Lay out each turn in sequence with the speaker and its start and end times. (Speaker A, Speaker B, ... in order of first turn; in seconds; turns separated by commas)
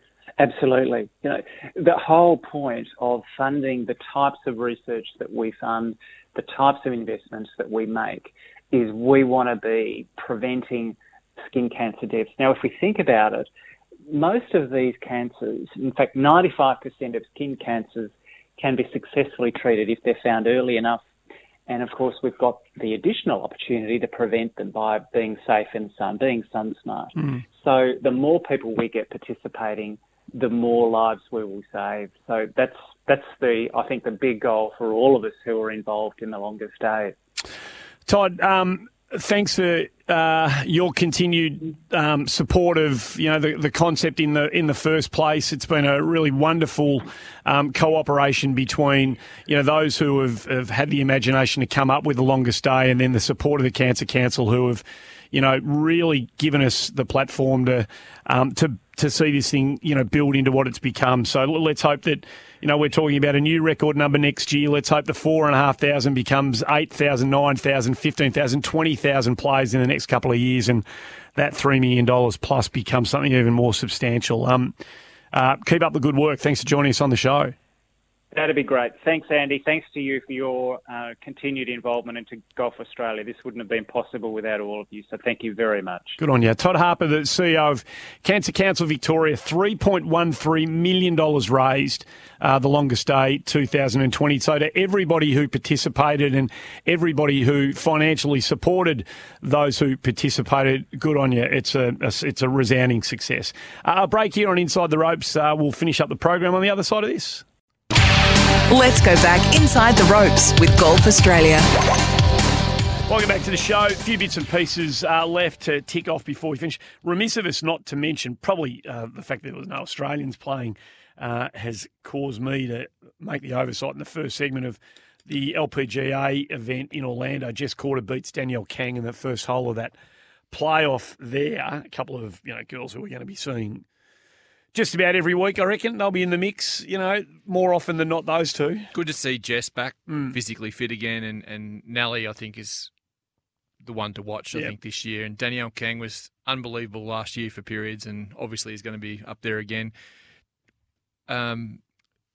Speaker A: 0.4-13.5, Speaker A: 14.1-21.0, Speaker A: 21.7-37.1, Speaker B: 38.1-74.8, Speaker B: 75.3-77.5, Speaker A: 78.3-86.2, Speaker B: 86.2-107.4, Speaker C: 108.7-111.7, Speaker B: 113.1-129.9, Speaker B: 130.5-133.8, Speaker B: 134.7-138.9, Speaker D: 138.9-142.9, Speaker B: 140.1-140.3, Speaker D: 143.8-149.9, Speaker D: 151.3-151.8